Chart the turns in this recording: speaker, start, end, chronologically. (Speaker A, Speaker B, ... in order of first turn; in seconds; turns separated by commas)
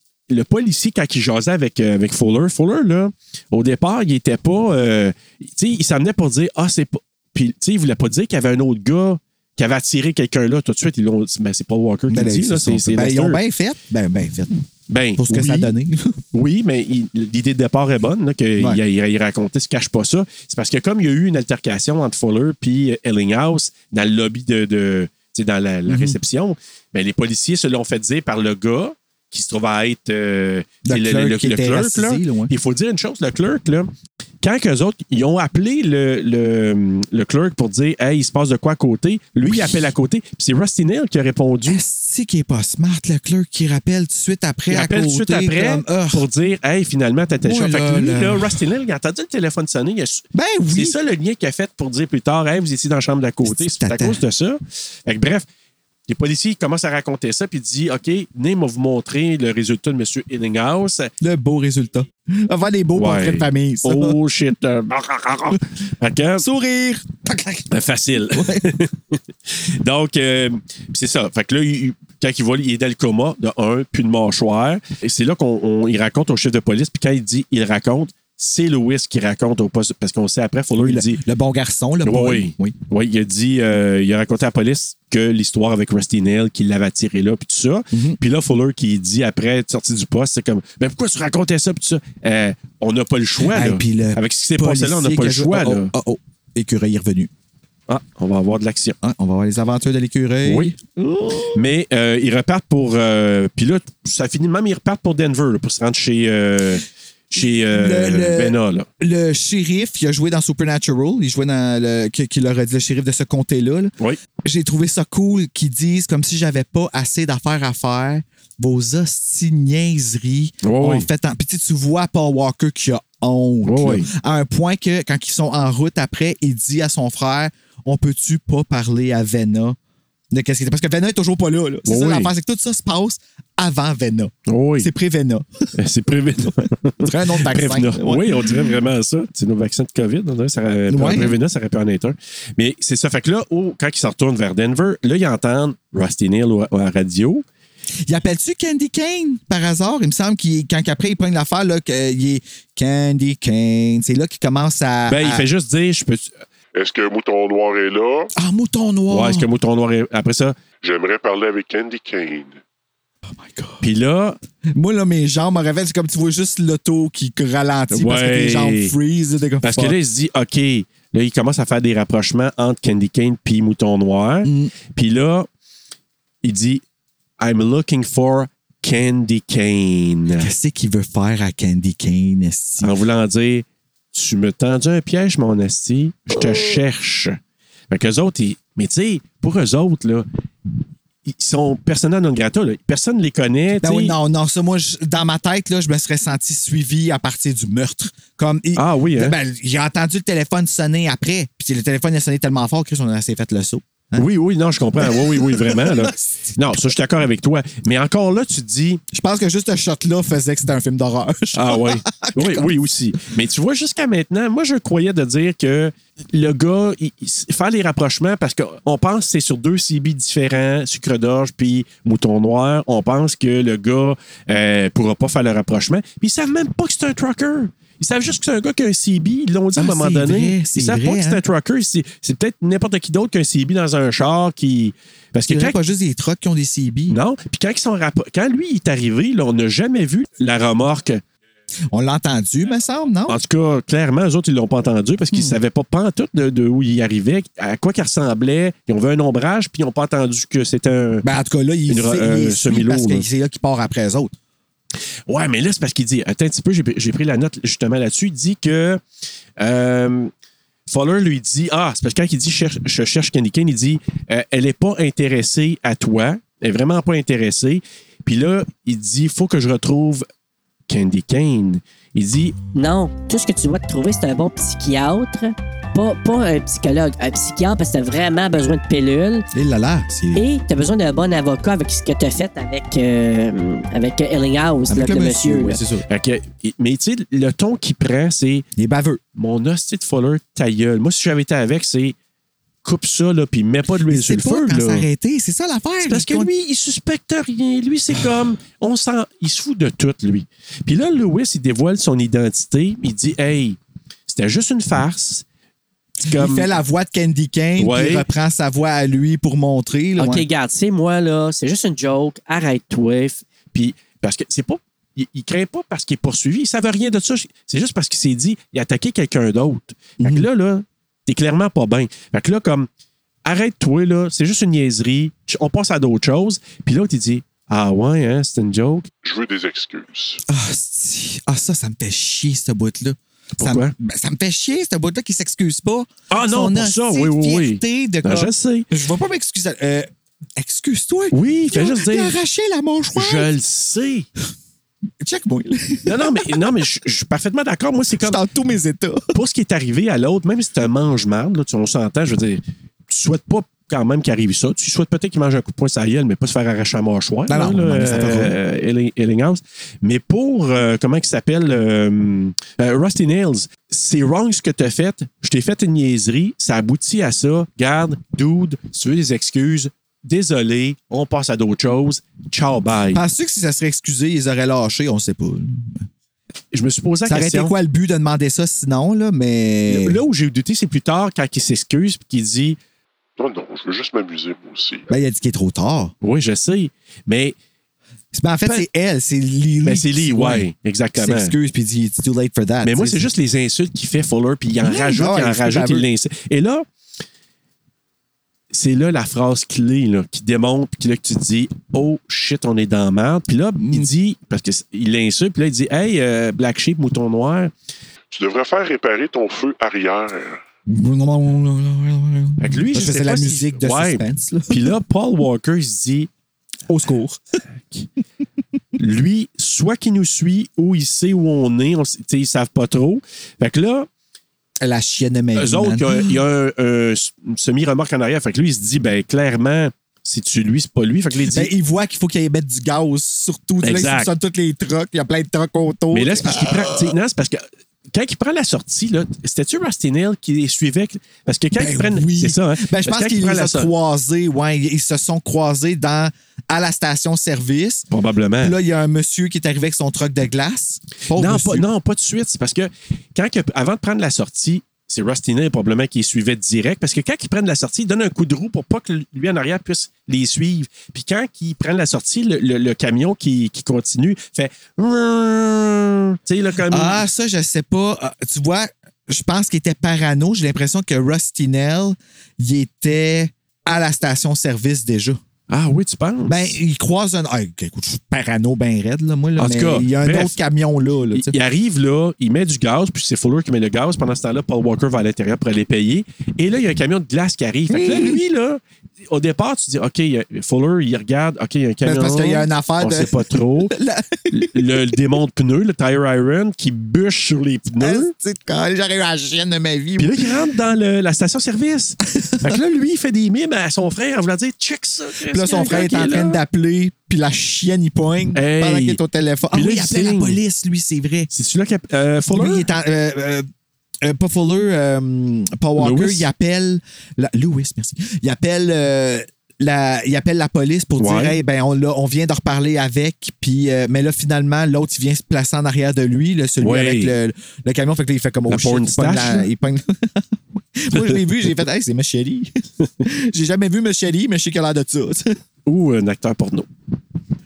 Speaker A: 0.3-13.4, Speaker B: 12.1-14.6, Speaker A: 14.9-15.7, Speaker B: 15.2-16.2, Speaker A: 16.3-33.9, Speaker B: 25.9-26.2, Speaker B: 30.8-32.5, Speaker A: 34.4-41.8, Speaker B: 39.5-39.9, Speaker B: 41.7-46.2, Speaker A: 44.7-55.4, Speaker B: 47.4-48.6, Speaker B: 50.3-51.0, Speaker B: 53.4-54.2, Speaker A: 56.1-61.1, Speaker B: 61.2-64.2, Speaker A: 62.9-66.5, Speaker B: 66.4-67.7, Speaker A: 67.7-81.2, Speaker B: 68.3-68.6, Speaker B: 80.8-82.7, Speaker A: 82.0-95.9, Speaker B: 87.9-88.2, Speaker B: 93.4-97.3, Speaker A: 97.9-99.0, Speaker B: 99.0-101.6, Speaker A: 100.4-100.7, Speaker A: 101.5-108.9, Speaker B: 107.3-129.8, Speaker A: 120.6-121.1, Speaker A: 123.6-124.1, Speaker B: 130.3-135.5, Speaker A: 131.8-132.3, Speaker A: 134.5-134.9, Speaker A: 135.8-147.4, Speaker B: 137.0-138.8, Speaker B: 140.9-141.3, Speaker B: 148.1-155.4, Speaker A: 155.1-156.3, Speaker C: 156.7-158.3, Speaker B: 158.3-159.5, Speaker A: 159.1-160.5, Speaker C: 160.8-162.6, Speaker B: 163.3-163.8, Speaker A: 163.8-164.4, Speaker B: 164.7-170.0, Speaker A: 167.9-168.9, Speaker A: 169.6-175.5, Speaker B: 174.4-174.7, Speaker A: 176.4-176.8, Speaker A: 177.4-180.5, Speaker B: 180.4-182.9, Speaker A: 182.8-187.4, Speaker B: 186.3-186.8, Speaker A: 187.9-190.3, Speaker A: 191.2-194.1, Speaker B: 193.8-204.2, Speaker A: 198.8-199.3, Speaker A: 204.2-209.0, Speaker B: 205.0-206.2, Speaker B: 209.1-212.7, Speaker A: 211.5-235.8, Speaker B: 229.8-231.4, Speaker B: 235.5-237.2, Speaker A: 237.1-241.2, Speaker B: 241.9-243.4, Speaker A: 243.3-251.2, Speaker B: 245.3-245.6, Speaker B: 251.2-254.3, Speaker A: 251.9-253.2, Speaker A: 255.3-259.0, Speaker A: 259.6-260.3, Speaker A: 260.9-270.2, Speaker A: 270.9-272.6, Speaker D: 272.7-279.5, Speaker B: 279.5-280.4, Speaker D: 280.3-285.8, Speaker B: 284.9-286.0, Speaker A: 286.1-288.6, Speaker B: 288.8-289.2, Speaker A: 289.4-292.1, Speaker A: 292.8-295.1, Speaker B: 294.1-296.5, Speaker A: 296.0-305.4, Speaker A: 306.2-306.7, Speaker B: 306.2-310.4, Speaker A: 307.8-308.2, Speaker A: 310.2-310.5, Speaker D: 310.2-313.1, Speaker A: 312.8-322.9, Speaker B: 320.2-320.4, Speaker A: 323.4-329.1, Speaker C: 329.2-330.4, Speaker B: 330.5-343.5, Speaker A: 333.6-333.9, Speaker A: 336.3-338.9, Speaker A: 341.3-342.4, Speaker A: 343.1-344.3, Speaker B: 345.2-346.6, Speaker A: 346.1-348.4, Speaker B: 348.2-349.3, Speaker A: 349.3-373.2, Speaker B: 357.5-358.6, Speaker B: 373.1-376.0, Speaker A: 376.7-377.7, Speaker B: 377.2-380.2, Speaker A: 379.9-382.8, Speaker C: 383.4-385.1, Speaker B: 385.1-386.1, Speaker A: 386.2-387.6, Speaker B: 388.3-393.3, Speaker A: 389.8-391.5, Speaker A: 392.8-396.9, Speaker B: 394.8-396.1, Speaker A: 398.7-407.7, Speaker B: 403.8-404.1, Speaker C: 408.3-410.6, Speaker B: 410.9-414.9, Speaker A: 412.6-416.3, Speaker B: 416.9-417.4, Speaker A: 419.0-424.1, Speaker B: 424.8-426.4, Speaker A: 425.6-431.7, Speaker B: 431.4-437.1, Speaker A: 433.8-434.3, Speaker A: 436.1-443.9, Speaker B: 441.7-448.1, Speaker A: 448.1-448.8, Speaker B: 448.6-451.9, Speaker A: 451.3-467.2, Speaker B: 466.9-475.4, Speaker A: 475.7-476.8, Speaker B: 476.4-481.5, Speaker A: 479.6-480.6, Speaker A: 481.3-493.9, Speaker B: 487.9-488.4, Speaker B: 492.0-495.2, Speaker A: 494.5-498.3, Speaker B: 498.0-500.5, Speaker A: 500.2-506.6, Speaker B: 502.4-502.8, Speaker B: 505.4-511.5, Speaker A: 508.5-509.2, Speaker A: 509.7-510.6, Speaker A: 511.5-512.9, Speaker B: 512.5-513.7, Speaker B: 514.2-535.6, Speaker A: 516.0-516.5, Speaker A: 521.2-521.6, Speaker A: 526.8-527.3, Speaker A: 528.7-529.7, Speaker A: 531.1-531.4, Speaker A: 535.9-536.9